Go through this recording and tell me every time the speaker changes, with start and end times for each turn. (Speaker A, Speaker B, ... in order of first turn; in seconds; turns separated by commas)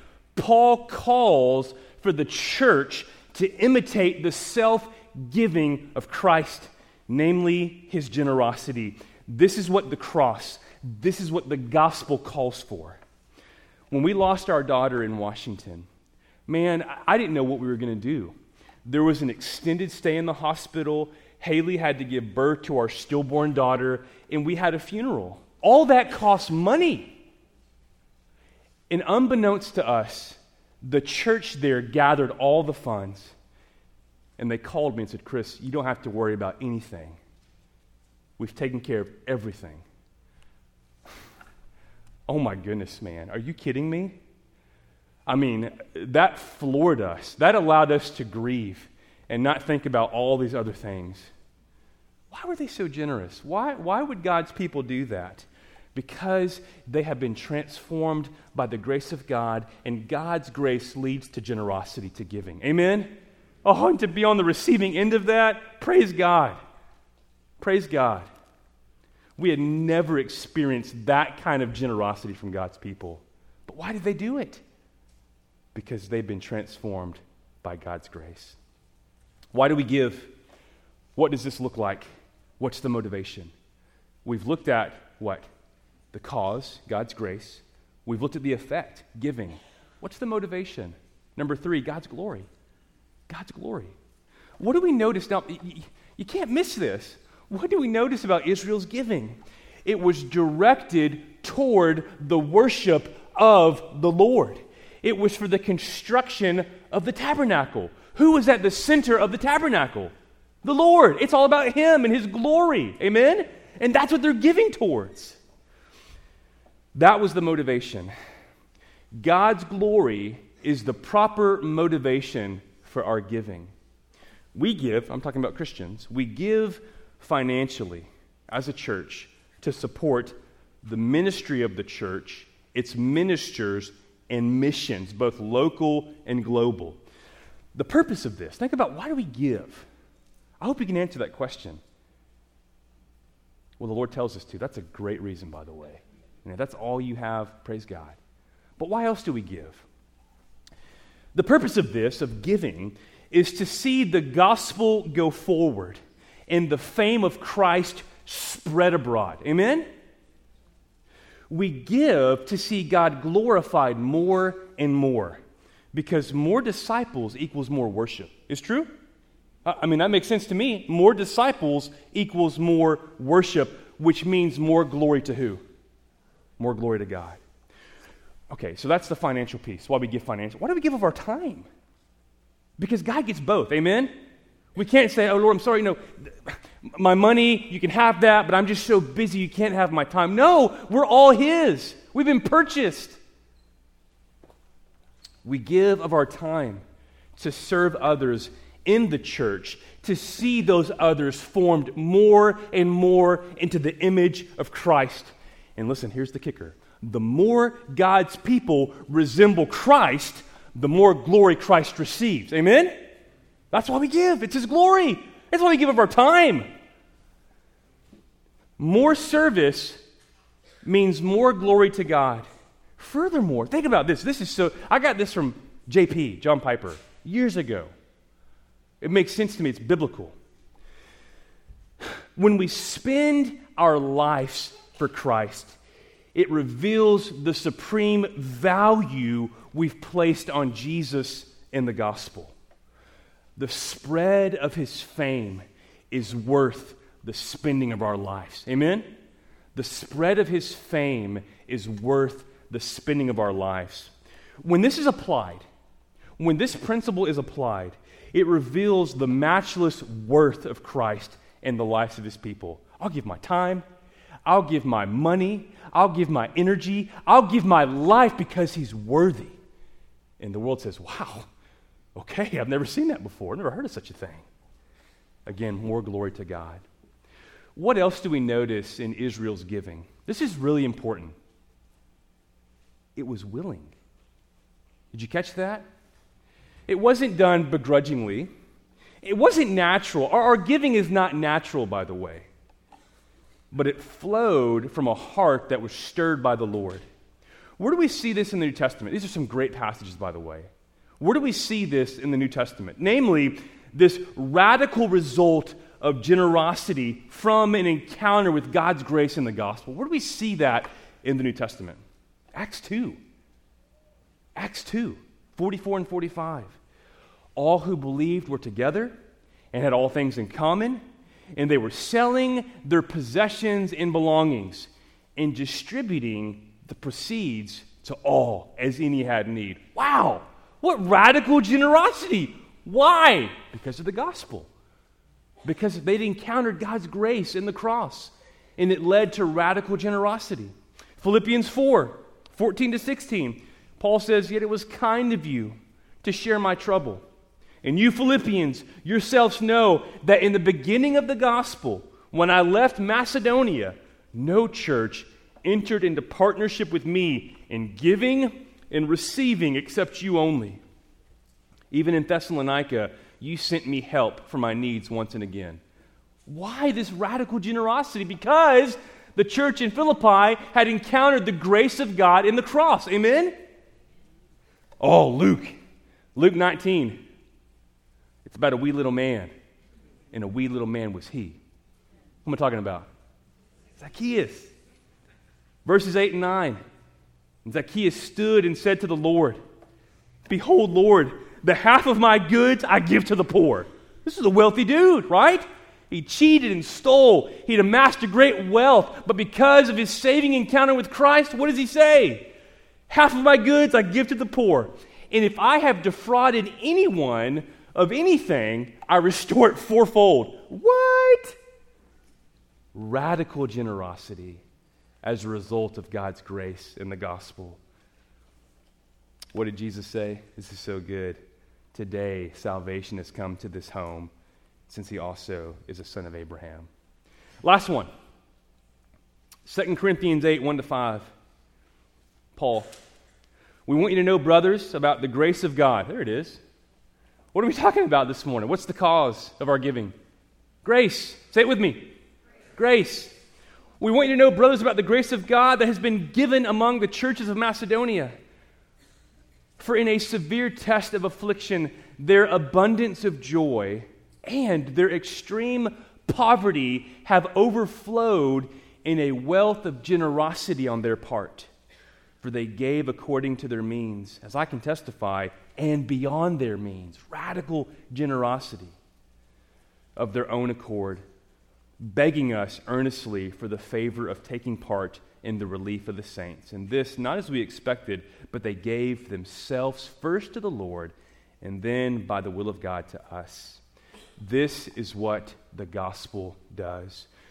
Speaker A: 0.3-13.0, Speaker A: 13.9-15.9, Speaker A: 16.5-27.2, Speaker A: 28.9-33.4, Speaker A: 34.4-37.2, Speaker A: 38.4-39.8, Speaker A: 42.3-44.2, Speaker A: 45.3-51.3, Speaker A: 52.3-63.1, Speaker A: 63.6-66.6, Speaker A: 67.6-68.3, Speaker A: 69.4-74.6, Speaker A: 75.7-78.6, Speaker A: 79.5-80.3, Speaker A: 81.1-82.1, Speaker A: 82.6-83.5, Speaker A: 84.2-85.5, Speaker A: 86.1-92.5, Speaker A: 93.3-93.9, Speaker A: 94.6-110.1, Speaker A: 110.6-115.4, Speaker A: 116.9-118.1, Speaker A: 119.2-123.7, Speaker A: 124.5-137.0, Speaker A: 137.7-139.9, Speaker A: 140.6-141.8, Speaker A: 143.8-148.2, Speaker A: 148.8-149.8, Speaker A: 151.3-159.9, Speaker A: 161.5-165.4, Speaker A: 165.9-168.9, Speaker A: 169.6-175.6, Speaker A: 176.6-177.4, Speaker A: 178.5-181.7, Speaker A: 182.8-184.1, Speaker A: 184.8-193.2, Speaker A: 195.4-196.8, Speaker A: 197.4-213.0, Speaker A: 213.7-216.7, Speaker A: 218.8-220.0, Speaker A: 220.8-222.5, Speaker A: 223.0-227.9, Speaker A: 229.0-230.4, Speaker A: 232.3-235.8, Speaker A: 236.3-242.5, Speaker A: 243.6-249.1, Speaker A: 249.8-255.6, Speaker A: 256.4-263.9, Speaker A: 264.5-269.6, Speaker A: 270.4-271.5, Speaker A: 272.1-274.5, Speaker A: 275.5-276.8, Speaker A: 277.8-281.3, Speaker A: 283.1-283.9, Speaker A: 285.1-285.9, Speaker A: 286.9-288.5, Speaker A: 289.2-292.5, Speaker A: 293.7-297.0, Speaker A: 297.8-312.0, Speaker A: 312.5-313.2, Speaker A: 314.6-316.8, Speaker A: 317.6-319.2, Speaker A: 319.7-321.0, Speaker A: 321.6-334.7, Speaker A: 335.6-347.2, Speaker A: 347.8-360.8, Speaker A: 361.9-365.8, Speaker A: 366.5-373.6, Speaker A: 375.0-375.8, Speaker A: 376.4-377.2, Speaker A: 378.4-379.5, Speaker A: 380.3-381.6, Speaker A: 382.4-383.1, Speaker A: 384.0-384.7, Speaker A: 385.9-386.8, Speaker A: 387.6-389.6, Speaker A: 390.5-402.5, Speaker A: 403.1-411.6, Speaker A: 412.9-414.6, Speaker A: 415.2-417.8, Speaker A: 419.5-421.4, Speaker A: 421.9-424.3, Speaker A: 424.9-426.9, Speaker A: 427.6-428.1, Speaker A: 429.6-431.3, Speaker A: 432.6-432.9, Speaker A: 433.9-436.6, Speaker A: 437.5-440.1, Speaker A: 440.8-442.1, Speaker A: 442.8-443.3, Speaker A: 444.0-448.4, Speaker A: 449.8-461.7, Speaker A: 462.4-468.9, Speaker A: 470.1-471.2, Speaker A: 472.0-483.8, Speaker A: 484.4-487.3